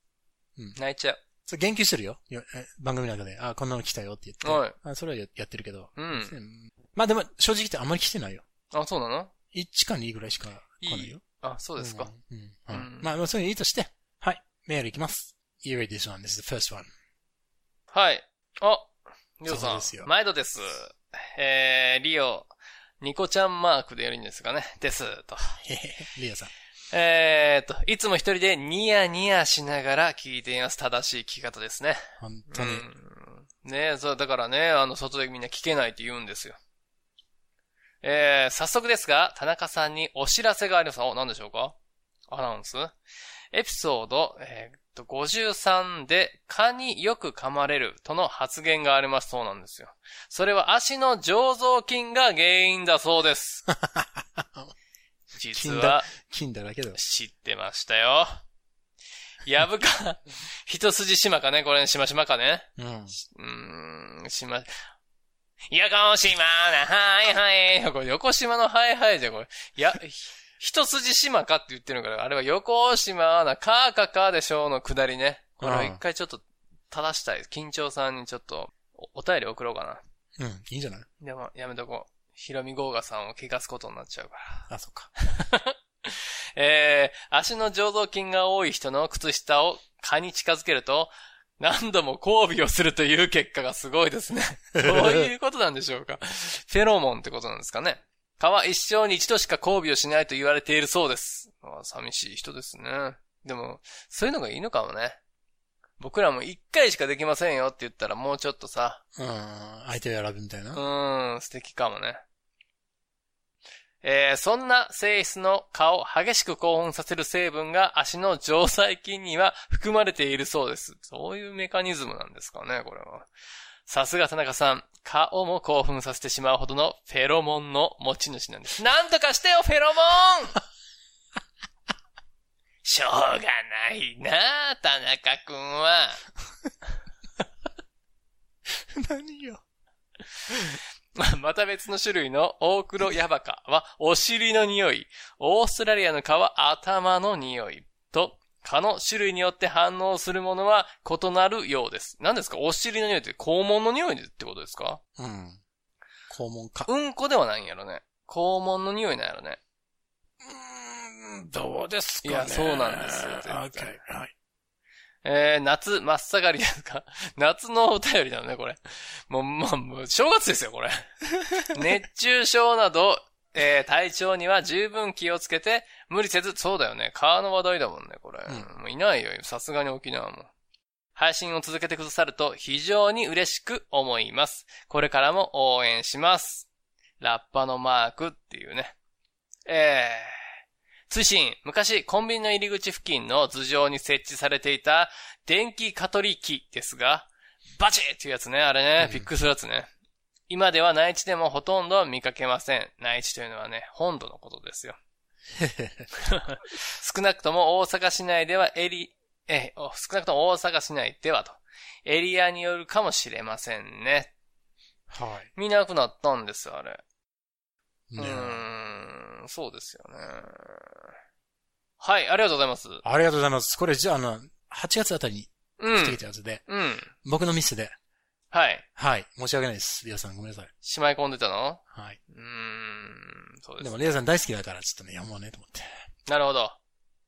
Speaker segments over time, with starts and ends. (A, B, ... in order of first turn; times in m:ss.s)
0:00.8-0:01.2 A
0:01.4-0:08.4 B
0:04.4-0:04.8 A
0:06.0-0:06.3 A
0:08.7-0:09.3 A
0:09.5-0:11.2 B
0:10.8-0:12.1 A
0:11.8-0:16.9 B
0:12.7-0:13.1 A
0:17.9-0:25.5 A
0:19.4-0:20.1 B
0:25.6-0:26.5 B
0:26.9-0:36.6 A
0:32.2-0:32.8 B
0:38.0-0:41.8 A
0:42.3-0:42.9 A
0:43.5-0:53.6 A
0:53.7-0:54.7 B
0:55.4-0:56.1 A
0:55.5-0:57.0 B
0:56.9-0:58.4 A
0:59.4-1:04.7 A
1:02.8-1:03.1 B
1:05.7-1:20.0 A
1:15.6-1:16.0 B
1:20.4-1:21.1 B
1:21.2-1:24.6 A
1:24.7-1:25.1 B
1:25.2-1:45.2 A
1:34.8-1:35.3 B
1:46.0-1:49.0 A
1:49.2-1:50.8 B
1:50.7-1:52.2 A
1:54.0-2:03.3 A
2:03.9-2:10.6 A
2:12.8-2:16.2 A
2:18.7-2:19.6 B
2:20.5-2:20.7 B
2:21.2-2:35.0 A
2:35.2-2:35.6 B
2:36.3-2:36.9 B
2:36.9-2:39.6 A
2:40.4-2:44.3 B
2:42.2-2:44.0 A
2:45.2-2:51.1 A
2:51.7-3:00.5 A
3:01.2-3:06.7 A
3:07.2-3:08.9 A
3:09.6-3:10.3 A
3:11.1-3:19.9 A
3:19.0-3:19.3 B
3:20.5-3:25.0 A
3:25.5-3:26.1 B
3:26.2-3:34.3 A
3:35.1-3:35.5 B
3:35.6-3:37.0 A
3:38.1-3:38.6 B
3:38.2-3:40.9 A
3:42.0-3:43.0 A
3:43.0-3:48.0 B
3:45.8-3:47.1 A
3:48.5-3:48.8 A
3:49.0-3:50.7 B
3:50.8-3:54.1 A
3:51.9-3:52.2 B
3:53.8-3:55.9 B
3:56.2-3:56.8 A